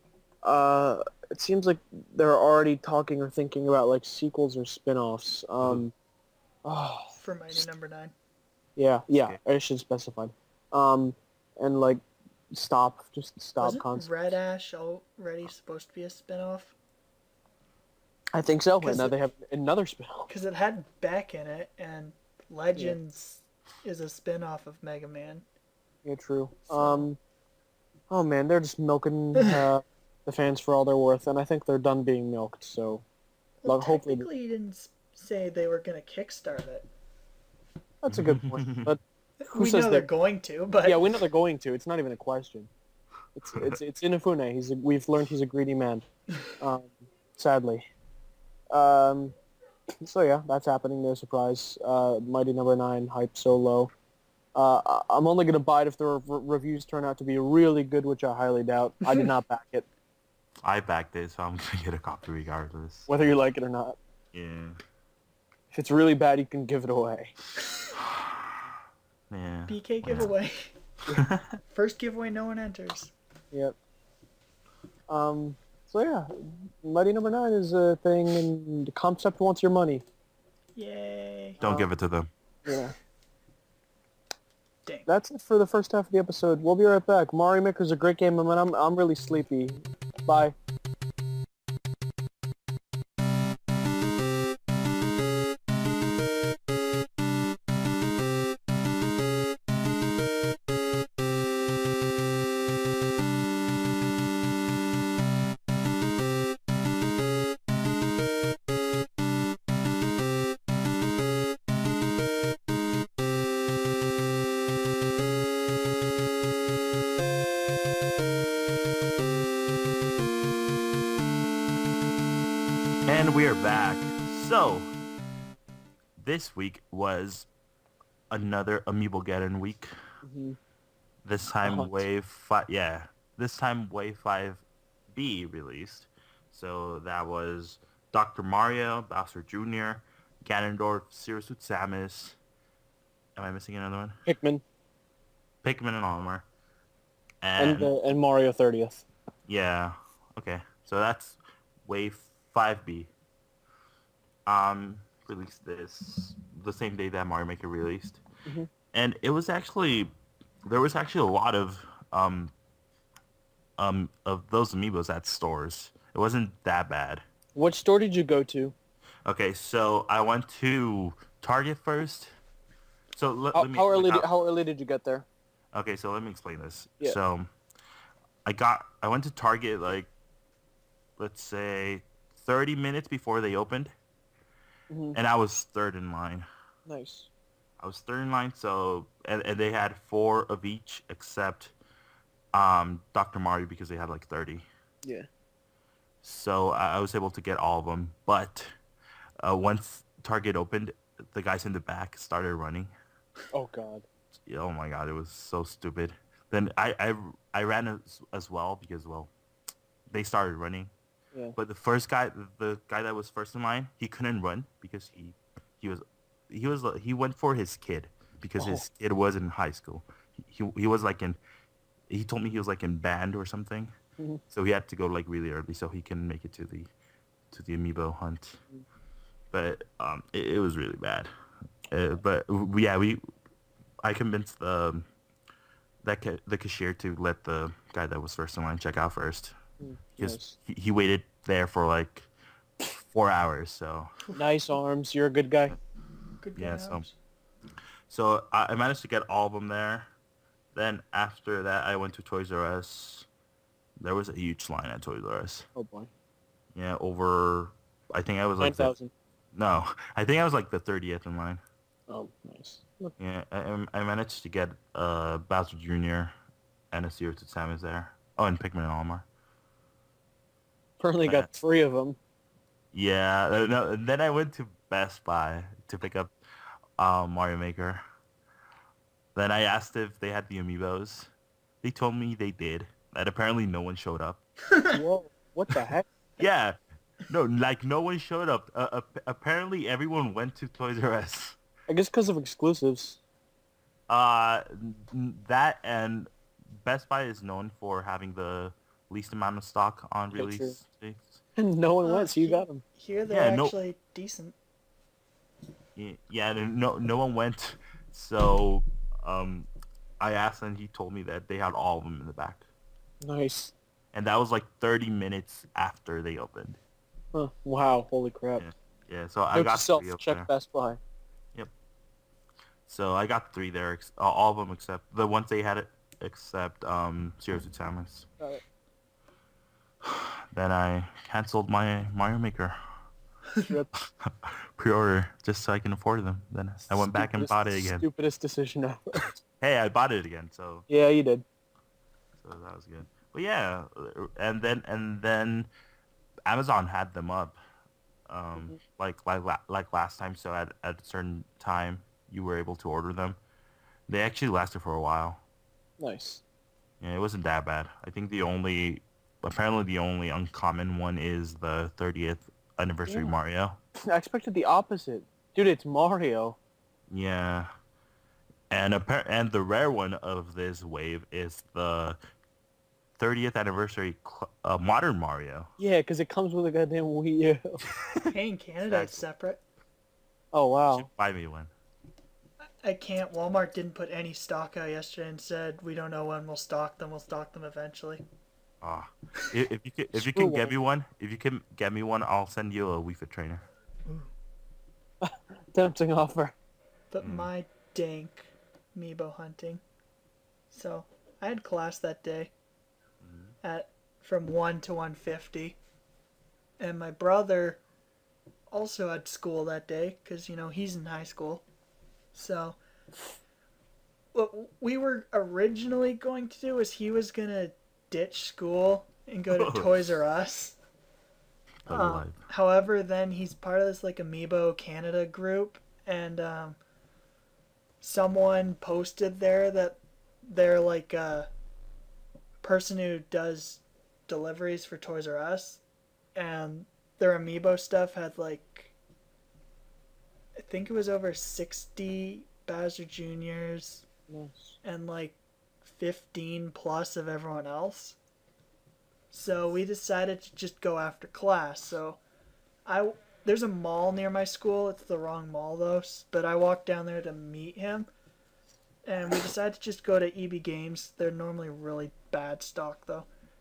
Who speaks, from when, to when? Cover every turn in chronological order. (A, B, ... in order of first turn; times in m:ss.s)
0:00.4-0:05.9 A
0:06.6-0:07.6 A
0:07.2-0:08.1 B
0:08.8-0:14.3 A
0:09.1-0:09.4 C
0:13.6-0:16.7 B
0:18.3-0:20.3 A
0:18.8-0:19.1 B
0:20.3-0:25.4 B
0:26.0-0:27.2 A
0:26.7-0:27.1 B
0:28.1-0:33.0 A
0:29.4-0:29.6 B
0:33.6-0:36.9 B
0:33.6-0:34.3 A
0:38.0-0:40.1 A
0:38.1-0:39.0 C
0:39.4-0:41.1 B
0:40.8-0:42.7 A
0:43.3-0:46.0 A
0:46.6-0:47.9 A
0:48.7-0:49.3 A
0:50.0-0:53.9 A
0:54.5-0:59.8 A
1:00.6-1:03.1 C
1:03.1-1:04.0 A
1:04.3-1:04.8 C
1:05.7-1:07.3 A
1:08.0-1:08.7 C
1:09.3-1:10.3 C
1:09.7-1:10.7 B
1:11.1-1:11.6 C
1:11.7-1:13.1 B
1:15.1-1:20.0 A
1:20.8-1:21.6 B
1:21.6-1:21.9 A
1:21.6-1:22.3 C
1:22.6-1:22.9 A
1:25.1-1:30.5 A
2:03.1-2:04.9 C
2:06.2-2:07.5 C
2:08.3-2:09.9 C
2:10.2-2:10.6 A
2:11.2-2:22.4 C
2:11.6-2:11.9 A
2:23.4-2:24.2 C
2:24.2-2:24.6 A
2:25.6-2:26.4 C
2:27.4-2:27.9 C
2:27.6-2:29.0 A
2:29.5-2:33.1 C
2:34.4-2:38.2 C
2:38.9-2:40.1 C
2:40.6-2:42.5 C
2:43.8-2:47.2 C
2:47.6-2:48.7 A
2:49.2-2:52.3 C
2:53.1-2:54.3 C
2:53.5-2:55.2 A
2:55.7-2:57.5 C
2:58.4-3:00.1 C
3:01.2-3:03.9 C
3:04.9-3:05.2 A
3:05.1-3:06.4 C
3:06.9-3:07.3 A
3:07.8-3:11.7 C
3:12.5-3:14.6 C
3:16.2-3:18.7 C
3:19.4-3:22.9 C
3:23.5-3:24.0 A
3:24.4-3:29.3 C
3:30.1-3:30.9 C
3:31.6-3:41.4 C
3:38.6-3:38.8 A
3:42.1-3:43.9 C
3:44.5-3:46.9 C
3:47.5-3:48.6 C
3:49.5-3:51.3 C
3:51.9-3:53.2 C
3:54.0-3:55.0 C
3:56.0-3:59.6 C
3:59.8-4:00.5 A
4:00.2-4:02.3 C
4:02.8-4:04.1 C
4:04.3-4:05.8 A
4:06.4-4:07.1 B
4:06.6-4:07.0 C
4:08.1-4:10.1 C
4:10.7-4:13.3 C
4:14.0-4:15.7 C
4:15.7-4:16.1 A
4:16.7-4:18.9 C
4:18.6-4:19.1 A
4:19.5-4:21.6 C
4:22.1-4:23.1 A
4:23.2-4:26.3 C
4:26.9-4:29.2 C
4:31.0-4:32.2 A
4:31.2-4:31.5 C
4:32.9-4:36.3 C
4:37.0-4:38.0 C
4:39.3-4:41.3 C
4:41.8-4:44.4 C
4:44.7-4:45.0 B
4:44.9-4:46.4 A
4:46.4-4:46.8 C
4:47.3-4:51.6 C
4:51.9-4:53.2 A
4:54.1-5:01.4 C
5:00.3-5:00.7 A
5:01.6-5:02.8 A
5:02.0-5:04.6 B
5:03.3-5:03.7 C
5:06.0-5:09.7 C
5:10.2-5:12.6 C
5:13.2-5:13.7 A
5:14.1-5:16.8 C
5:17.3-5:18.6 A
5:18.6-5:20.5 C
5:19.5-5:21.0 A
5:22.9-5:28.3 C
5:30.0-5:32.8 C
5:34.2-5:38.1 C
5:37.0-5:39.3 A
5:39.6-5:40.8 C
5:40.9-5:41.4 A
5:42.4-5:45.7 C
5:46.4-5:47.6 C
5:48.3-5:53.4 C
5:54.1-5:55.4 C
5:56.0-5:56.4 A
5:57.0-6:03.8 C
6:03.1-6:03.3 A
6:04.0-6:06.6 A
6:07.1-6:07.7 C
6:08.7-6:12.2 C
6:13.2-6:15.7 C
6:15.8-6:17.8 A
6:18.3-6:19.6 B
6:18.8-6:19.2 C
6:20.5-6:21.1 A
6:20.9-6:21.7 C
6:22.8-6:28.2 B
6:28.8-6:33.6 C
6:30.1-6:30.7 A
6:35.2-6:36.5 A
6:37.1-6:39.8 B
6:37.2-6:37.5 C
6:40.7-6:42.5 B
6:43.2-6:43.5 C
6:43.6-6:45.8 B
6:46.8-6:47.8 B
6:48.7-6:51.6 B
6:52.3-6:52.8 B
6:54.3-7:00.8 B
6:59.5-6:59.9 C
7:01.8-7:02.4 C
7:01.9-7:06.8 B
7:08.0-7:11.5 B
7:12.6-7:15.8 B
7:16.3-7:18.9 B
7:20.6-7:24.0 B
7:24.3-7:24.8 A
7:24.8-7:28.2 B
7:29.3-7:32.2 B
7:32.8-7:38.1 B
7:39.0-7:43.3 B